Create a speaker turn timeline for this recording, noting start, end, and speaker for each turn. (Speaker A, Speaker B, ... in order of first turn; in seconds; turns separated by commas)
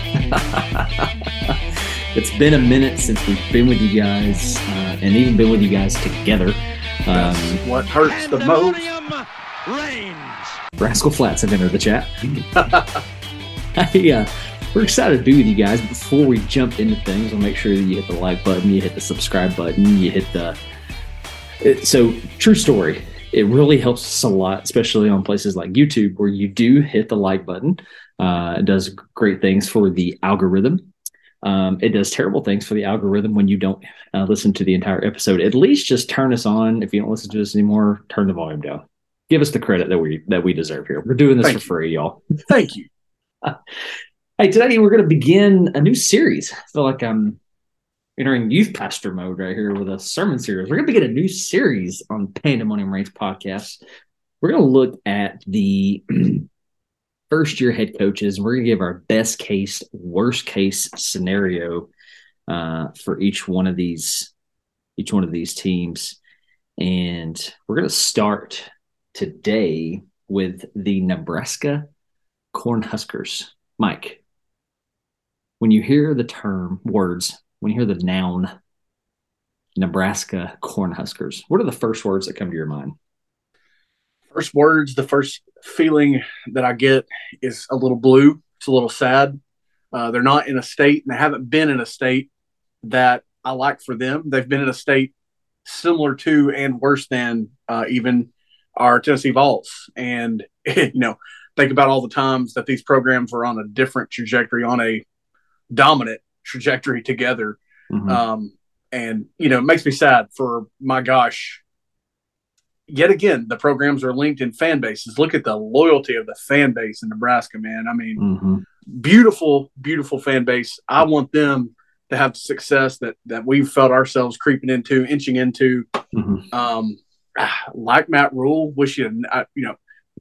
Speaker A: 0.3-1.6, Speaker A: 2.1-7.6, Speaker B: 7.1-8.9, Speaker C: 8.0-10.6, Speaker A: 10.8-12.4, Speaker B: 12.6-13.0, Speaker A: 13.8-20.6, Speaker A: 21.6-30.9, Speaker A: 31.4-42.2, Speaker B: 42.5-42.9, Speaker A: 44.4-47.4, Speaker A: 48.2-53.8, Speaker A: 54.4-56.5, Speaker A: 57.3-61.9, Speaker A: 62.5-64.3, Speaker A: 65.0-66.2, Speaker A: 66.8-71.9, Speaker A: 72.5-74.2, Speaker A: 75.6-78.5, Speaker A: 79.8-82.9, Speaker B: 84.3-89.4, Speaker B: 89.9-92.3, Speaker B: 92.8-95.1, Speaker B: 95.7-105.0, Speaker B: 105.7-111.6, Speaker A: 107.9-108.2, Speaker B: 112.9-118.2, Speaker A: 118.2-118.6, Speaker B: 118.9-125.9, Speaker A: 126.1-126.5, Speaker B: 126.5-129.8